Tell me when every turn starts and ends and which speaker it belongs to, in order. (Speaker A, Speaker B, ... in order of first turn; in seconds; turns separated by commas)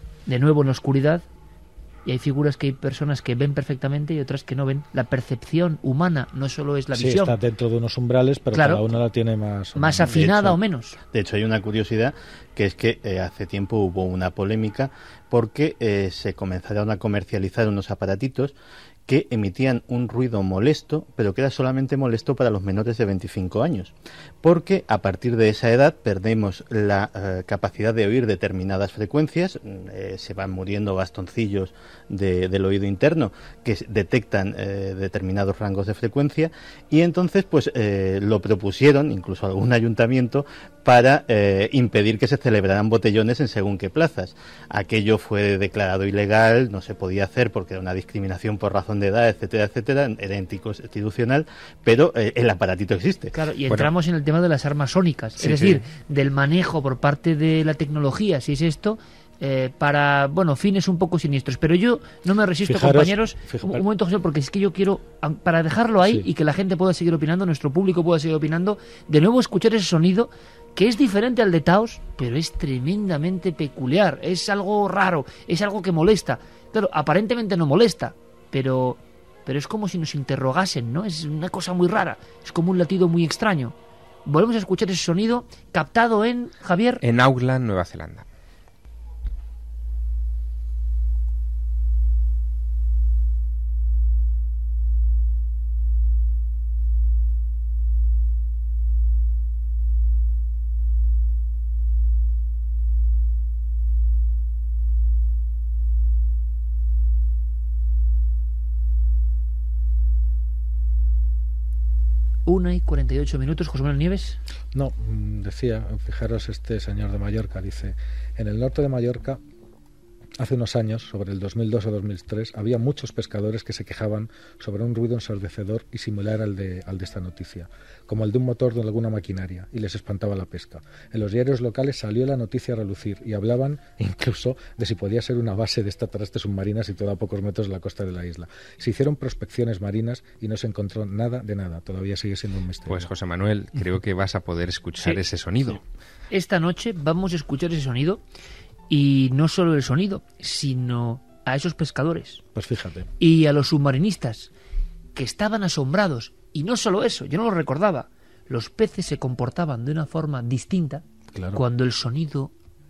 Speaker A: 0.3-1.2, Speaker A: 2.0-7.3, Speaker B: 6.9-10.6, Speaker A: 8.5-8.9, Speaker A: 9.7-11.0, Speaker C: 11.1-18.6, Speaker C: 19.1-53.3, Speaker A: 53.3-83.7, Speaker B: 62.6-63.8, Speaker B: 66.0-66.3, Speaker A: 84.3-87.0, Speaker D: 87.0-88.2, Speaker A: 112.5-114.4, Speaker B: 114.7-119.4, Speaker B: 120.4-143.1, Speaker D: 142.9-145.8, Speaker A: 146.3-148.2, Speaker A: 148.9-152.4, Speaker B: 152.5-153.1, Speaker A: 153.2-154.5, Speaker A: 155.1-161.0, Speaker B: 161.3-161.6, Speaker A: 161.6-162.5